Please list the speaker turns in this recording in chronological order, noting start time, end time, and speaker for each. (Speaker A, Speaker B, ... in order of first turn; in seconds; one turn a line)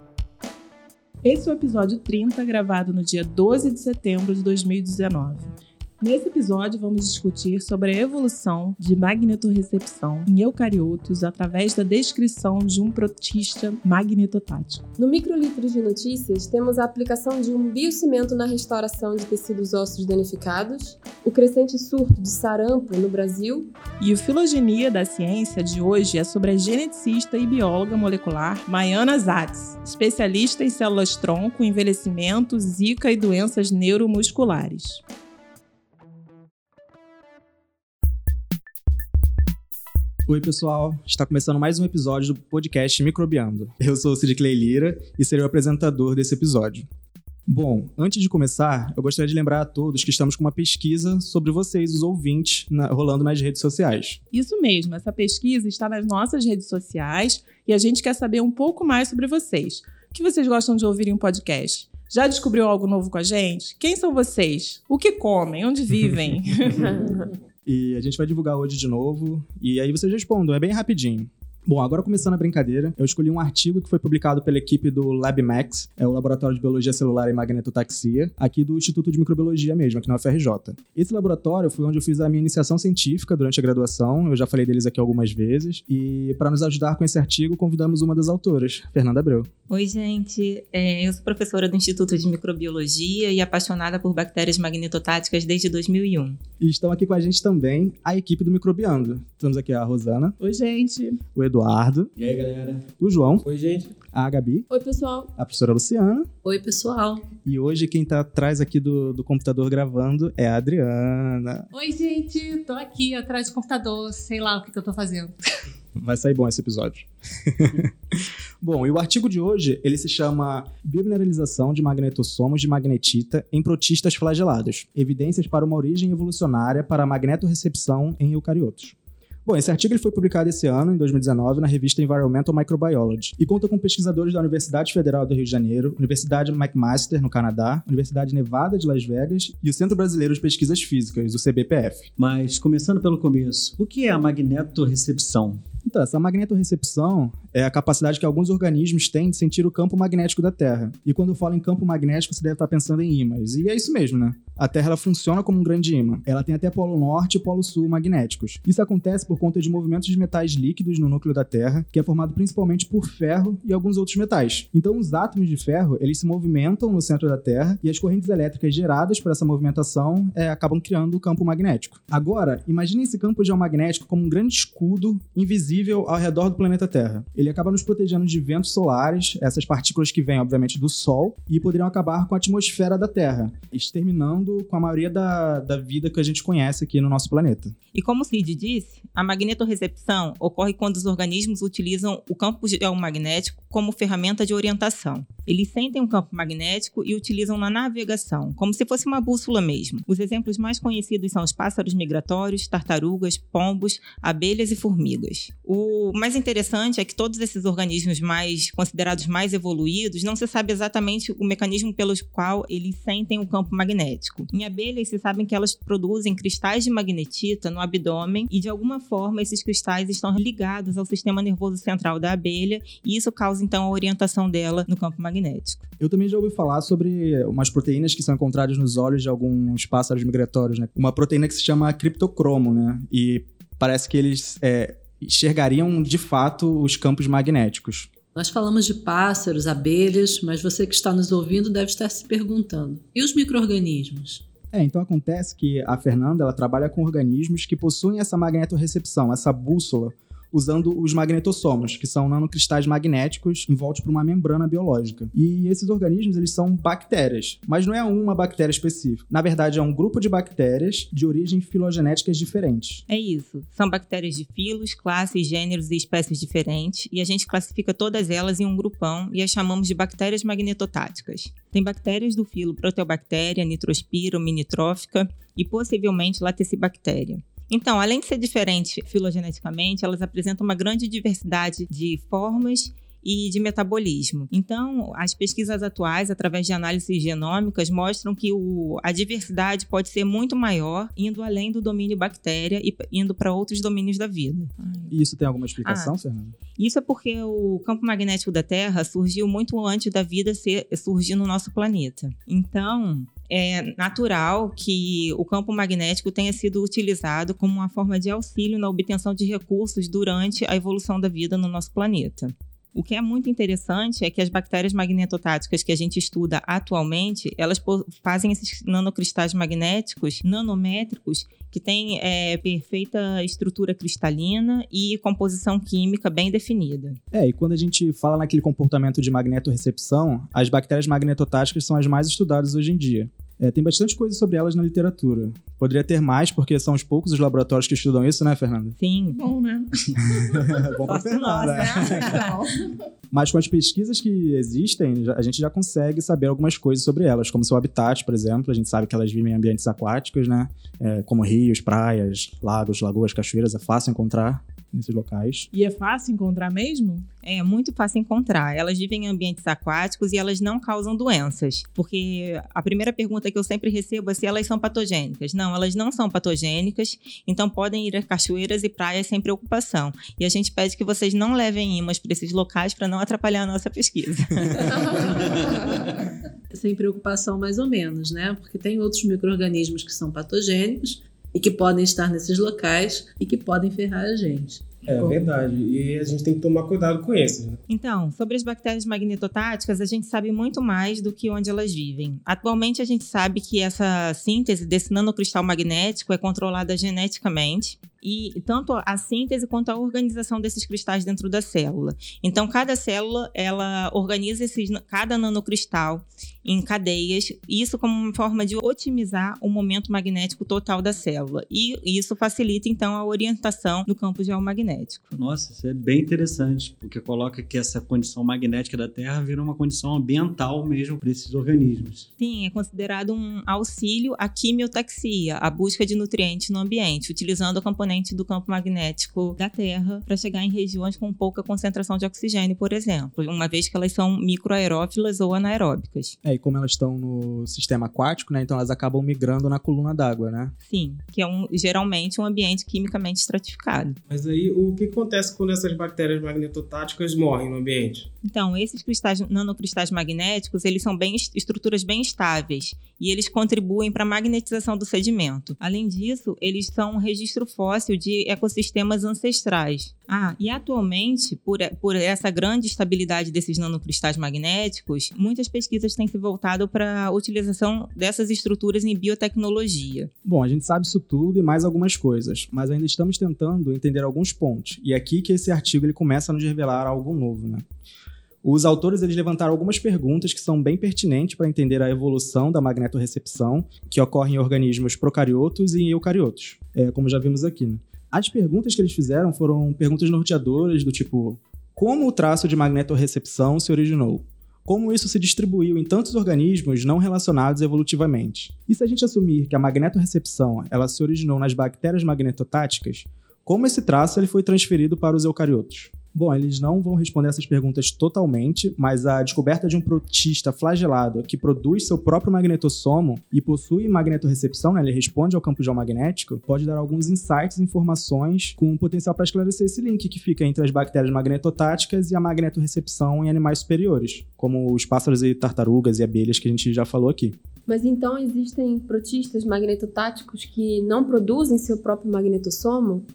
Speaker A: 1.2-14.9
Speaker B: 15.0-23.7
Speaker A: 24.0-35.0
Speaker C: 40.3-46.9
Speaker C: 47.5-54.2
Speaker A: 54.3-67.0
Speaker C: 67.7-89.5
Speaker D: 89.7-96.4
Speaker C: 96.6-100.3
Speaker A: 100.4-101.2
Speaker C: 101.3-102.1
Speaker E: 102.2-102.8
Speaker C: 103.0-103.4
Speaker F: 103.4-104.0
Speaker C: 104.1-104.7
Speaker B: 104.7-105.3
Speaker C: 105.3-106.3
Speaker G: 106.4-107.3
Speaker C: 107.4-111.7
Speaker H: 111.7-115.3
Speaker C: 115.9-142.1
Speaker E: 142.2-145.6
Speaker C: 145.8-187.7
Speaker D: 187.9-225.8
Speaker C: 226.0-238.1
Speaker G: 238.3-244.4
Speaker C: 244.7-263.0
Speaker D: 263.1-295.1
Speaker C: 295.1-296.5
Speaker D: 295.8-296.1
Speaker D: 296.8-327.2
Speaker C: 327.3-338.9
Speaker D: 339.0-339.4
Speaker A: 339.3-342.9
Speaker C: 340.3-342.4
Speaker D: 341.0-342.4
Speaker C: 343.3-355.7
Speaker A: 355.7-357.3
Speaker D: 357.4-375.2
Speaker G: 376.7-385.5
Speaker F: 385.0-387.8
Speaker D: 387.9-415.3
Speaker E: 415.3-422.3
Speaker D: 422.4-436.3
Speaker C: 436.4-440.7
Speaker D: 440.8-444.2
Speaker F: 444.3-448.3
Speaker D: 448.4-470.3
Speaker C: 470.4-477.8
Speaker C: 478.6-527.6
Speaker B: 527.9-533.2